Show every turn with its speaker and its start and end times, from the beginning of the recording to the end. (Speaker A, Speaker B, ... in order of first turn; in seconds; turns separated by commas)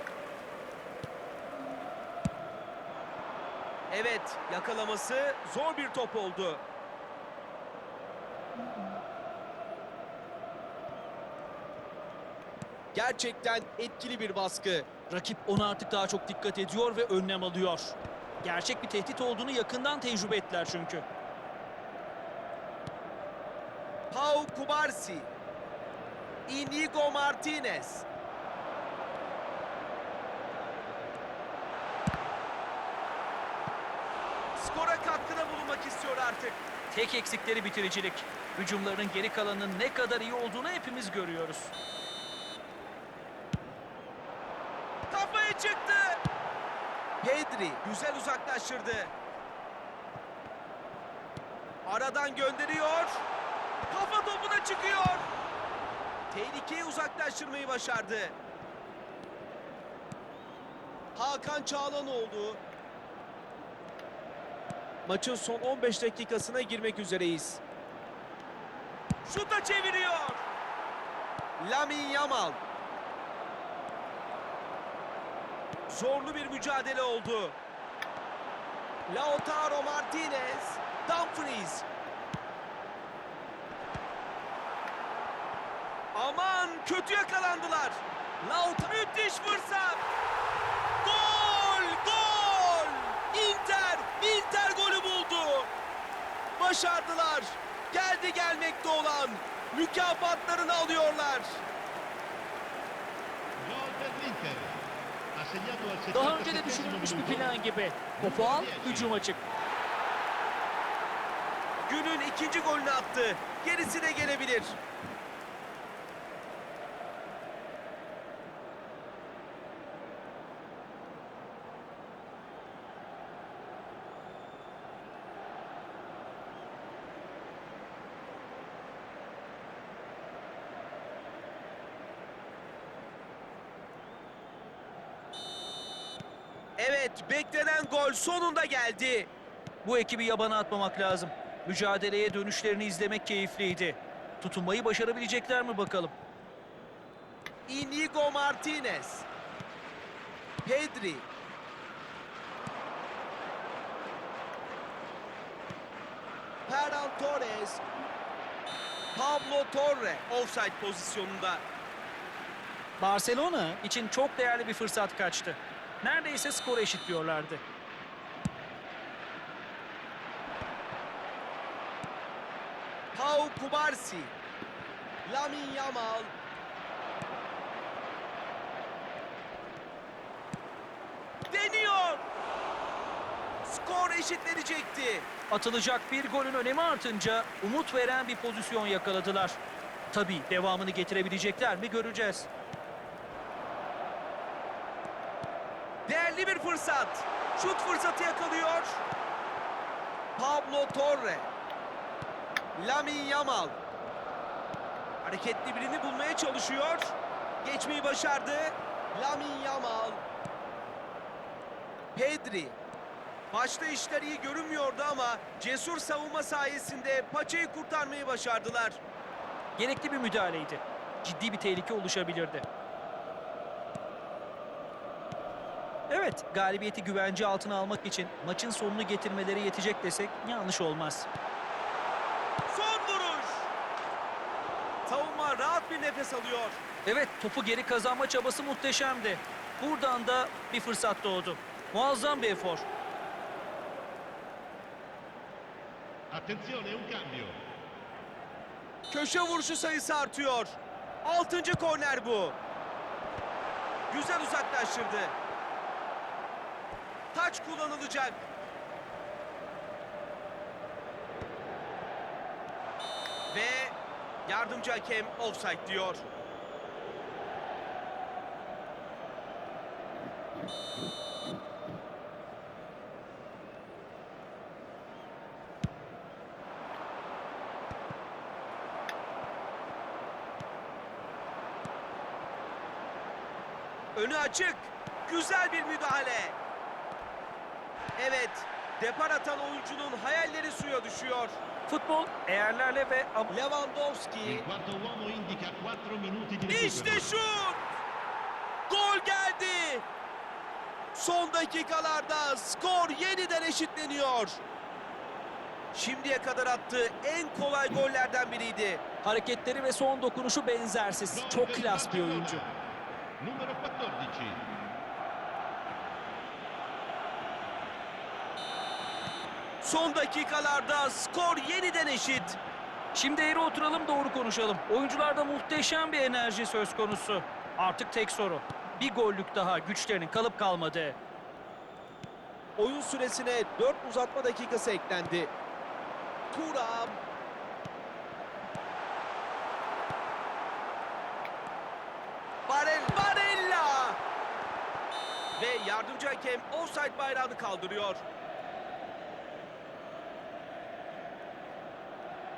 Speaker A: 3.9-6.6, Speaker A: 12.9-14.9, Speaker B: 15.1-21.0, Speaker A: 24.1-25.3, Speaker A: 26.5-28.0, Speaker A: 34.5-36.6, Speaker B: 36.9-41.7, Speaker A: 45.1-46.2, Speaker A: 47.2-49.1, Speaker A: 51.8-53.2, Speaker A: 53.9-55.3, Speaker A: 56.3-58.4, Speaker A: 61.1-62.6, Speaker A: 65.0-67.6, Speaker A: 69.2-70.4, Speaker A: 71.6-72.6, Speaker A: 75.9-77.6, Speaker A: 79.1-81.8, Speaker A: 86.1-90.0, Speaker A: 91.0-95.7, Speaker A: 96.6-101.6, Speaker C: 103.7-104.8, Speaker C: 105.3-107.6, Speaker B: 106.1-109.4, Speaker C: 108.2-109.2, Speaker A: 111.9-114.8, Speaker A: 136.8-139.3, Speaker B: 139.8-146.1, Speaker A: 147.7-149.2, Speaker A: 150.6-151.3, Speaker A: 156.7-157.8, Speaker A: 159.1-161.6, Speaker B: 163.0-167.6, Speaker A: 173.1-174.3, Speaker A: 175.2-176.3, Speaker A: 181.5-182.2, Speaker A: 183.6-185.3, Speaker B: 185.5-189.6, Speaker B: 190.1-192.5, Speaker A: 196.1-199.0, Speaker A: 200.4-201.5, Speaker A: 202.8-203.8, Speaker A: 205.2-210.2, Speaker A: 212.1-212.8, Speaker A: 213.5-219.0, Speaker B: 219.8-222.6, Speaker B: 226.1-231.3, Speaker A: 232.7-233.7, Speaker A: 235.1-236.8, Speaker B: 237.1-242.8, Speaker C: 246.3-247.6, Speaker A: 249.1-252.6, Speaker A: 254.1-255.3, Speaker A: 257.3-258.5, Speaker A: 263.5-266.3, Speaker A: 284.1-286.6, Speaker A: 288.2-291.6, Speaker B: 291.9-293.5, Speaker A: 293.5-294.6, Speaker C: 294.4-297.3, Speaker A: 296.7-297.9, Speaker A: 298.9-300.0, Speaker A: 301.1-304.6, Speaker A: 305.9-309.0, Speaker B: 309.2-312.6, Speaker C: 311.3-312.6, Speaker C: 313.4-314.7, Speaker A: 319.8-322.6, Speaker B: 323.1-331.2, Speaker A: 332.8-335.5, Speaker A: 336.5-337.2, Speaker A: 342.7-344.2, Speaker A: 345.6-348.2